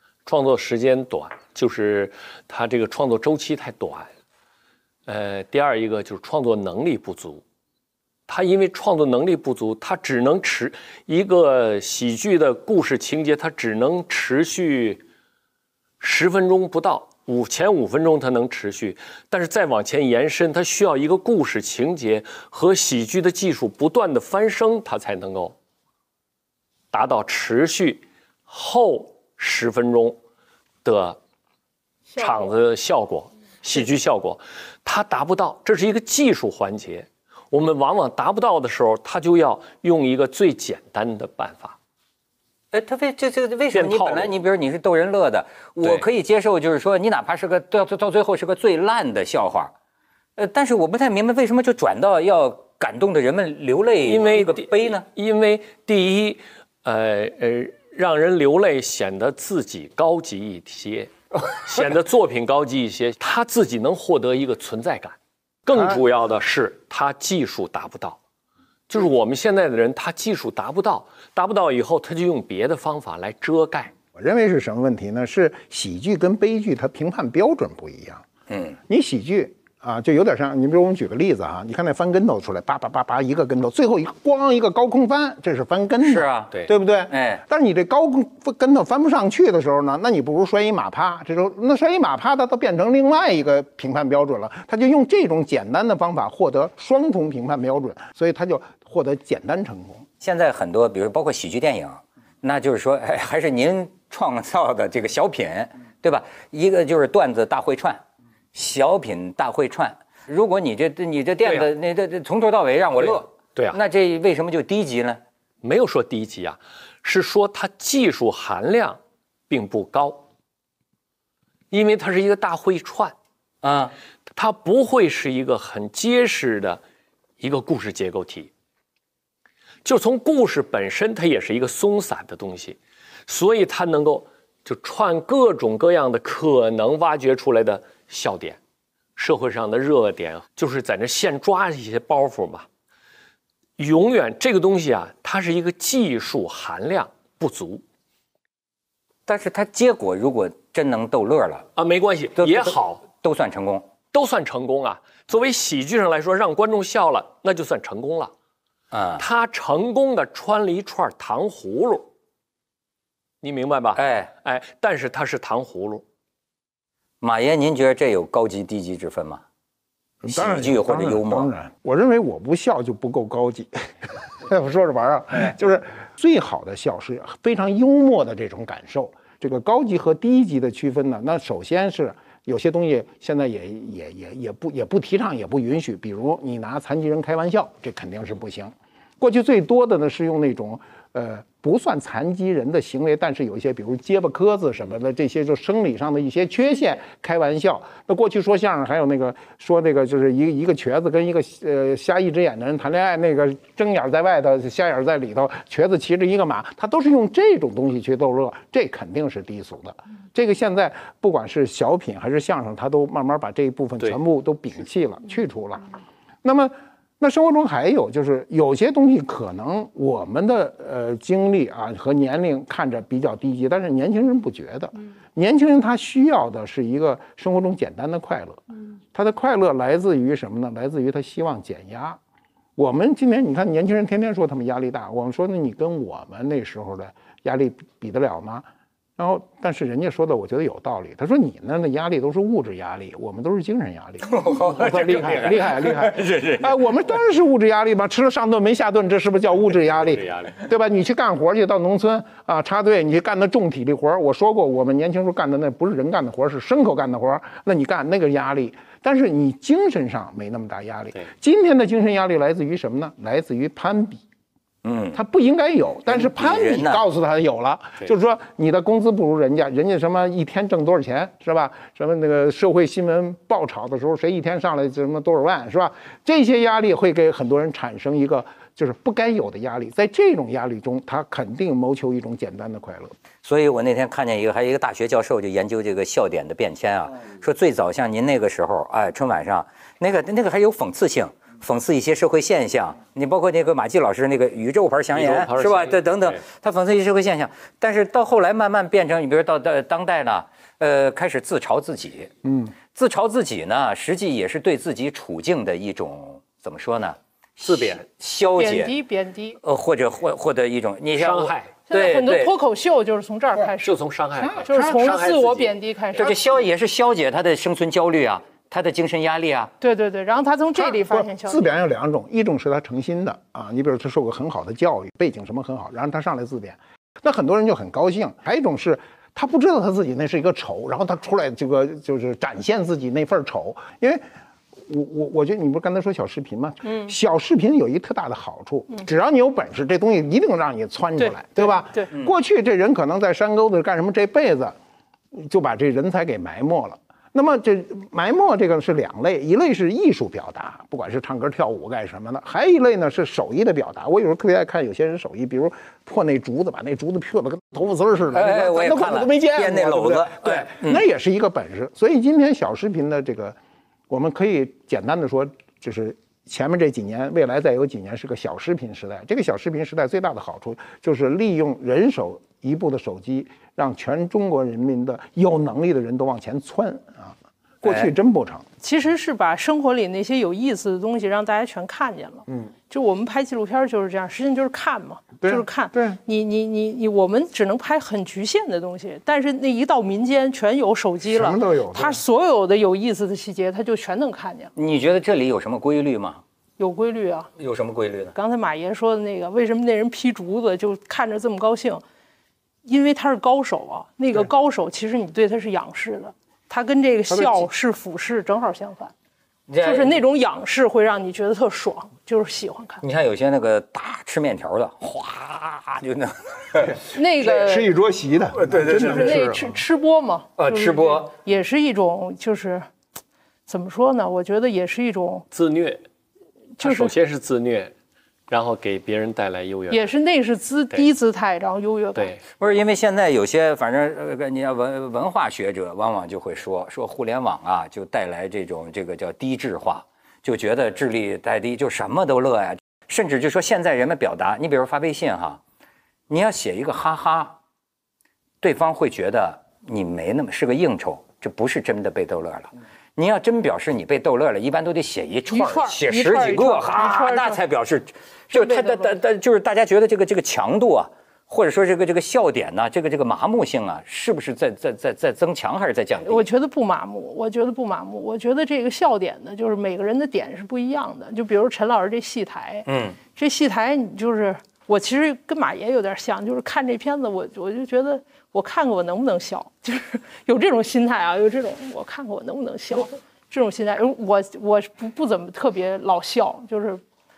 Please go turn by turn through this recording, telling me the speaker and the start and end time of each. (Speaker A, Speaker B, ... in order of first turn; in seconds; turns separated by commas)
Speaker A: 0.2-4.1, Speaker A: 5.1-7.4, Speaker A: 8.3-15.0, Speaker A: 16.0-25.5, Speaker A: 26.9-30.2, Speaker A: 30.8-31.2, Speaker B: 32.1-32.5, Speaker A: 32.1-41.8, Speaker C: 42.7-49.7, Speaker A: 43.7-44.3, Speaker C: 50.4-55.0, Speaker A: 54.0-68.2, Speaker D: 65.7-66.0, Speaker A: 68.9-73.9, Speaker D: 74.1-78.2, Speaker C: 78.5-78.8, Speaker D: 78.9-100.0, Speaker C: 86.0-87.4, Speaker C: 100.2-108.0, Speaker C: 108.5-115.2, Speaker A: 113.0-113.8, Speaker A: 115.6-120.2, Speaker A: 121.7-123.1, Speaker C: 123.6-123.9, Speaker A: 124.3-126.8, Speaker A: 127.4-128.5, Speaker A: 129.8-138.6, Speaker A: 139.2-142.7, Speaker A: 143.8-147.8, Speaker C: 149.3-151.7, Speaker A: 151.8-153.0, Speaker C: 152.4-153.8, Speaker A: 154.1-158.3, Speaker C: 158.9-159.2, Speaker A: 159.2-162.1, Speaker A: 163.4-166.0, Speaker C: 163.9-164.3, Speaker C: 167.2-169.4, Speaker D: 170.2-215.9, Speaker C: 170.3-171.5, Speaker D: 216.4-232.2, Speaker D: 232.8-264.2, Speaker C: 244.3-246.7, Speaker C: 264.8-265.2, Speaker D: 265.1-283.1, Speaker C: 266.1-267.0, Speaker C: 283.4-302.3, Speaker A: 295.1-296.4, Speaker D: 302.4-302.7, Speaker C: 302.9-308.9, Speaker A: 307.6-308.0, Speaker B: 308.6-309.6, Speaker C: 309.6-312.5, Speaker A: 311.1-311.7, Speaker B: 311.9-313.9, Speaker A: 313.8-315.8, Speaker D: 314.4-315.0, Speaker B: 314.6-316.5, Speaker C: 316.1-319.7, Speaker B: 319.8-321.8, Speaker D: 320.7-334.2, Speaker D: 334.8-344.7, Speaker B: 336.8-337.1, Speaker B: 341.2-342.1, Speaker D: 345.3-363.6, Speaker C: 358.3-361.0, Speaker D: 364.1-378.6, Speaker C: 377.8-378.1, Speaker B: 378.8-394.7, Speaker D: 385.4-386.2, Speaker D: 391.2-392.2, Speaker C: 394.8-396.4, Speaker B: 396.8-397.5, Speaker C: 397.6-398.3, Speaker B: 398.3-402.0, Speaker B: 402.8-409.1, Speaker D: 407.3-407.7, Speaker C: 409.7-410.1, Speaker B: 409.8-413.0, Speaker C: 413.0-417.0, Speaker D: 416.8-419.8, Speaker B: 417.1-417.9, Speaker C: 418.6-419.3, Speaker B: 418.8-422.9, Speaker C: 420.6-421.3, Speaker B: 423.7-425.4, Speaker A: 425.5-426.0, Speaker B: 426.8-427.1, Speaker A: 426.8-427.9, Speaker A: 428.5-430.1, Speaker B: 429.9-432.4, Speaker A: 432.1-432.4, Speaker C: 432.6-445.6, Speaker C: 446.3-447.6, Speaker C: 448.6-466.5, Speaker B: 455.5-457.6, Speaker B: 458.5-459.1, Speaker B: 466.2-487.0, Speaker C: 472.9-473.2